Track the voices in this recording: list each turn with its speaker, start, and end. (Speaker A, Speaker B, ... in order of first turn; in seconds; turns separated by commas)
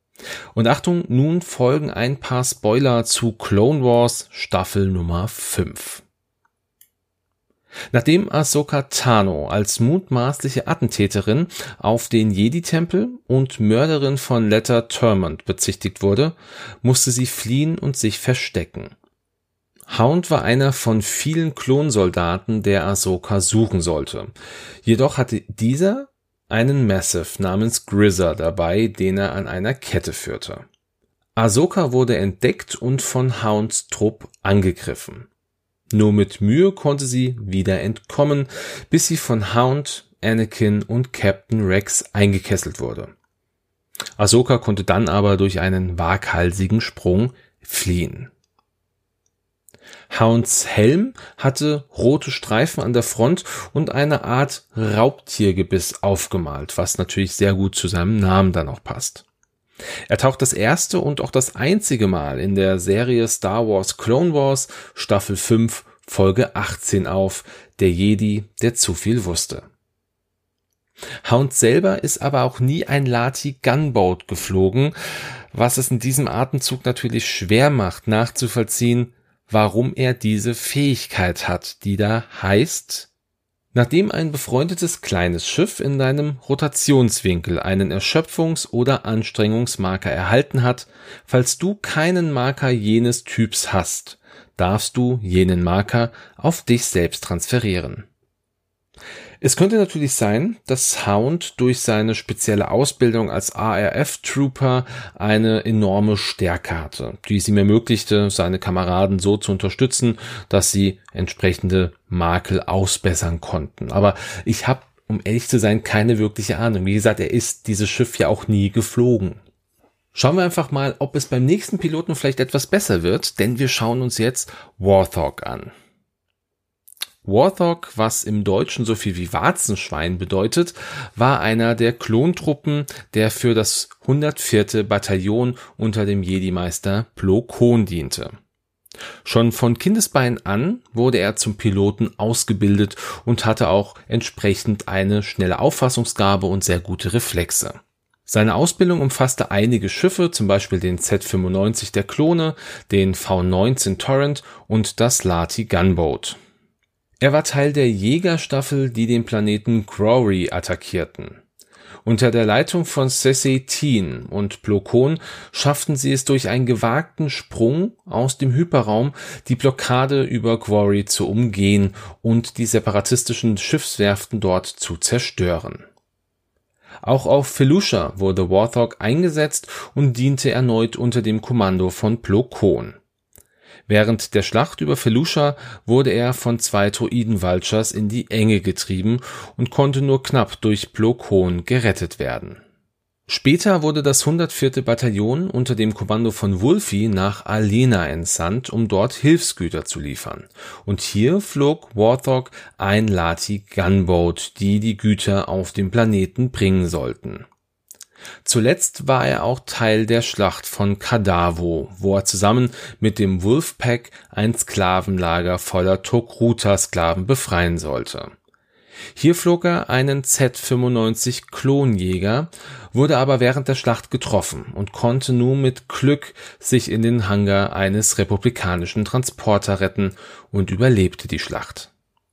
Speaker A: 0.5-6.0, Speaker A: 7.9-19.0, Speaker A: 19.9-24.3, Speaker A: 24.9-30.7, Speaker A: 31.4-35.3, Speaker A: 35.9-43.1, Speaker A: 44.2-48.3, Speaker A: 50.1-59.2, Speaker A: 60.1-69.7, Speaker A: 71.2-75.0, Speaker A: 75.5-83.1, Speaker A: 83.7-98.1, Speaker A: 99.4-119.4, Speaker A: 120.1-125.7, Speaker A: 127.2-138.3, Speaker A: 139.2-156.4, Speaker A: 157.2-161.4, Speaker A: 162.1-175.9, Speaker A: 177.0-183.0, Speaker A: 183.9-192.6, Speaker A: 193.3-207.5, Speaker A: 208.4-218.3, Speaker A: 219.2-231.9